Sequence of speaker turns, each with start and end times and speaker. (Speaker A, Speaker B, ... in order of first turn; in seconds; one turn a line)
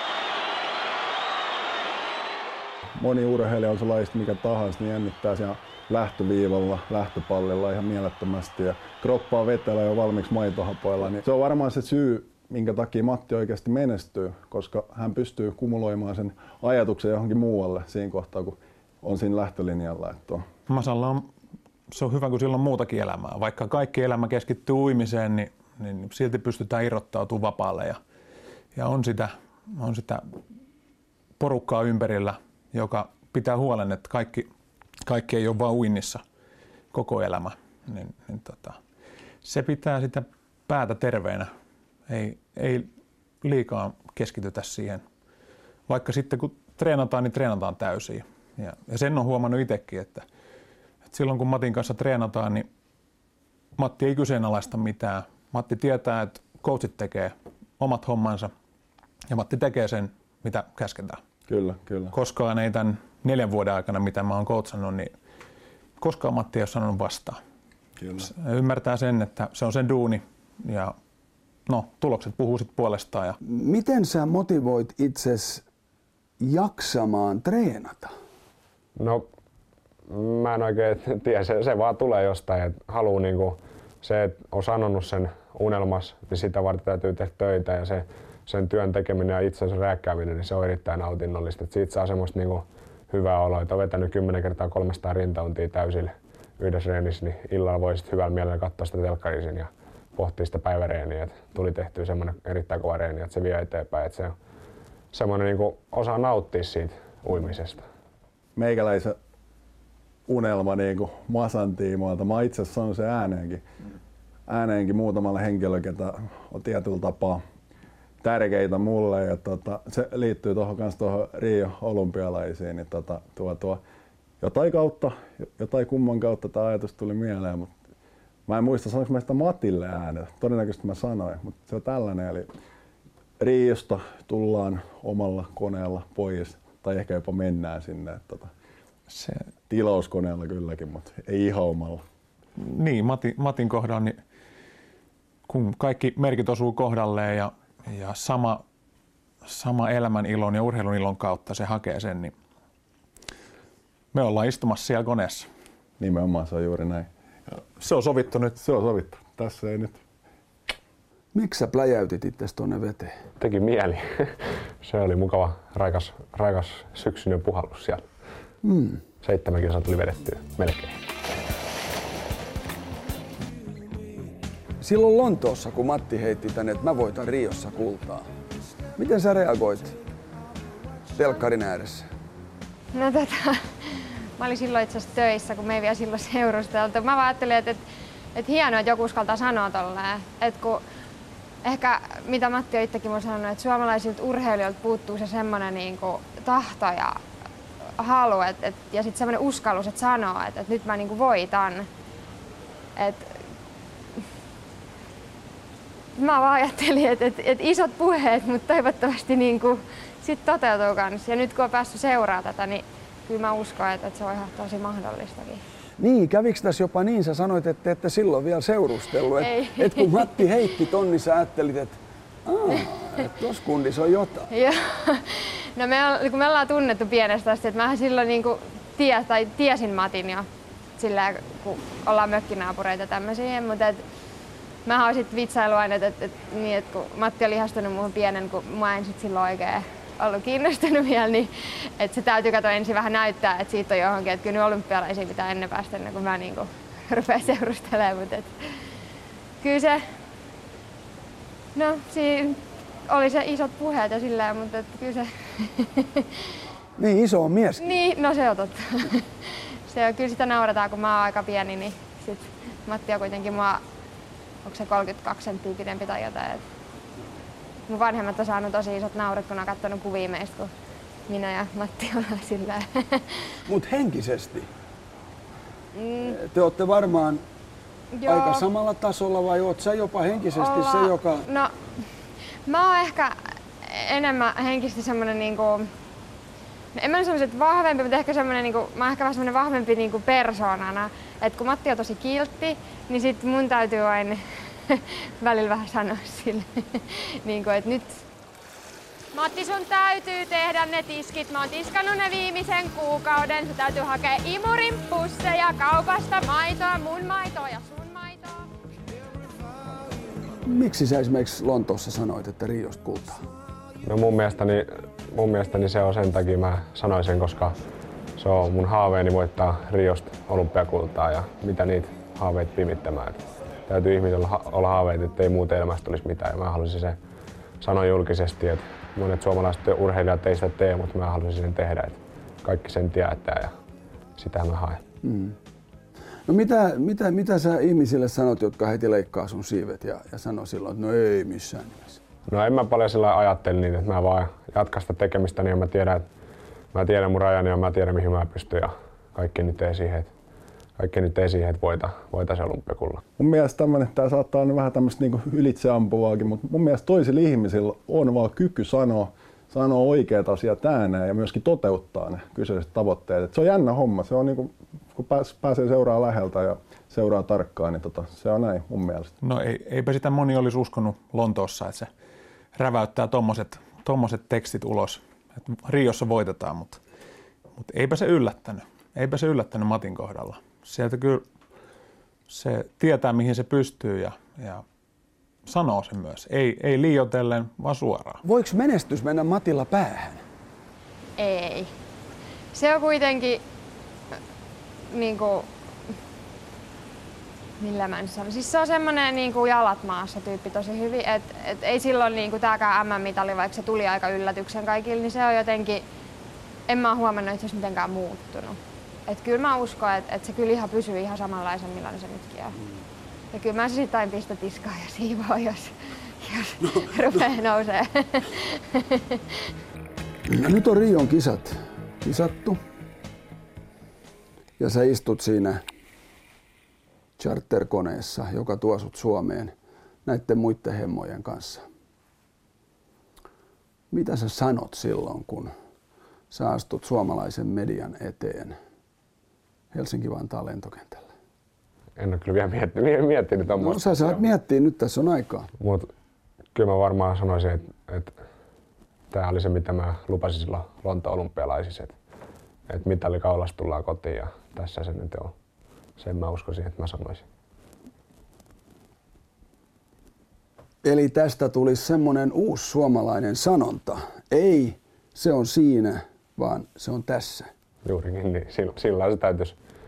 Speaker A: 3.0-20.5
Speaker B: 20.7-21.3
Speaker B: 21.9-28.0
Speaker B: 28.8-30.2
Speaker B: 31.4-34.5
Speaker B: 35.1-36.2
Speaker B: 36.9-38.8
Speaker B: 39.4-41.5
Speaker B: 42.1-42.9
Speaker B: 43.4-45.0
Speaker B: 45.9-50.3
Speaker B: 51.1-52.7
Speaker B: 53.8-58.5
Speaker B: 59.3-61.2
Speaker A: 61.5-62.2
Speaker B: 62.1-65.1
Speaker B: 66.0-67.4
Speaker A: 68.0-68.3
Speaker B: 68.2-71.0
Speaker B: 71.7-73.4
Speaker C: 73.4-75.6
Speaker C: 76.4-78.1
Speaker D: 79.0-79.3
Speaker D: 80.1-104.3
Speaker D: 105.1-107.8
Speaker A: 108.6-109.2
Speaker A: 110.3-113.6
Speaker A: 114.5-117.4
Speaker A: 118.2-123.8
Speaker A: 124.4-127.7
Speaker A: 128.5-132.5
Speaker A: 133.4-138.5
Speaker B: 139.1-139.5
Speaker A: 139.7-142.0
Speaker B: 142.6-144.2
Speaker B: 145.5-148.6
Speaker B: 149.5-152.3
Speaker B: 154.1-155.5
Speaker A: 156.0-157.6
Speaker B: 157.8-158.6
Speaker A: 158.6-160.0
Speaker C: 161.3-163.2
Speaker D: 163.4-168.1
Speaker C: 168.6-169.0
Speaker D: 169.2-171.0
Speaker C: 174.8-178.3
Speaker C: 179.0-180.0
Speaker C: 181.2-182.1
Speaker E: 182.9-187.8
Speaker E: 188.3-190.8
Speaker E: 191.6-197.2
Speaker E: 198.0-201.9
Speaker E: 203.0-203.3
Speaker E: 206.2-215.6
Speaker C: 216.0-224.5
Speaker E: 219.4-220.5
Speaker E: 224.5-230.5
Speaker E: 231.0-234.0
Speaker E: 234.9-248.5
Speaker E: 249.6-250.0
Speaker E: 251.8-256.5
Speaker C: 257.0-258.0
Speaker E: 257.8-263.8
Speaker E: 264.6-266.6
Speaker E: 267.9-270.7
Speaker E: 271.3-273.6
Speaker C: 273.7-274.7
Speaker E: 275.9-276.4
Speaker C: 276.2-277.4
Speaker E: 278.2-278.7
Speaker C: 278.3-281.5
Speaker E: 280.6-281.7
Speaker E: 282.7-285.9
Speaker E: 286.9-298.2
Speaker E: 299.3-308.7
Speaker C: 310.6-313.4
Speaker D: 314.0-317.8
Speaker D: 318.4-327.2
Speaker D: 327.8-333.7
Speaker D: 334.4-335.0
Speaker C: 335.2-335.6
Speaker C: 336.5-342.2
Speaker D: 342.5-346.3
Speaker D: 346.9-350.3
Speaker D: 351.0-353.2
Speaker A: 353.4-369.3
Speaker B: 369.4-372.1
Speaker B: 372.8-377.0
Speaker B: 377.8-381.4
Speaker B: 382.5-384.8
Speaker B: 385.7-388.4
Speaker C: 388.4-390.4
Speaker E: 391.4-391.9
Speaker E: 392.7-393.6
Speaker E: 395.1-395.7
Speaker E: 397.8-406.0
Speaker E: 406.9-412.8
Speaker E: 413.5-419.7
Speaker C: 420.5-422.8
Speaker C: 424.8-425.8
Speaker C: 427.4-431.9
Speaker C: 434.1-435.7
Speaker C: 436.5-438.8
Speaker C: 439.9-441.3
Speaker D: 442.2-444.4
Speaker C: 443.8-445.7
Speaker D: 445.8-446.1
Speaker D: 446.7-448.4
Speaker D: 449.3-452.1
Speaker D: 452.9-455.5
Speaker D: 456.2-457.4
Speaker C: 461.0-467.7
Speaker D: 468.1-469.8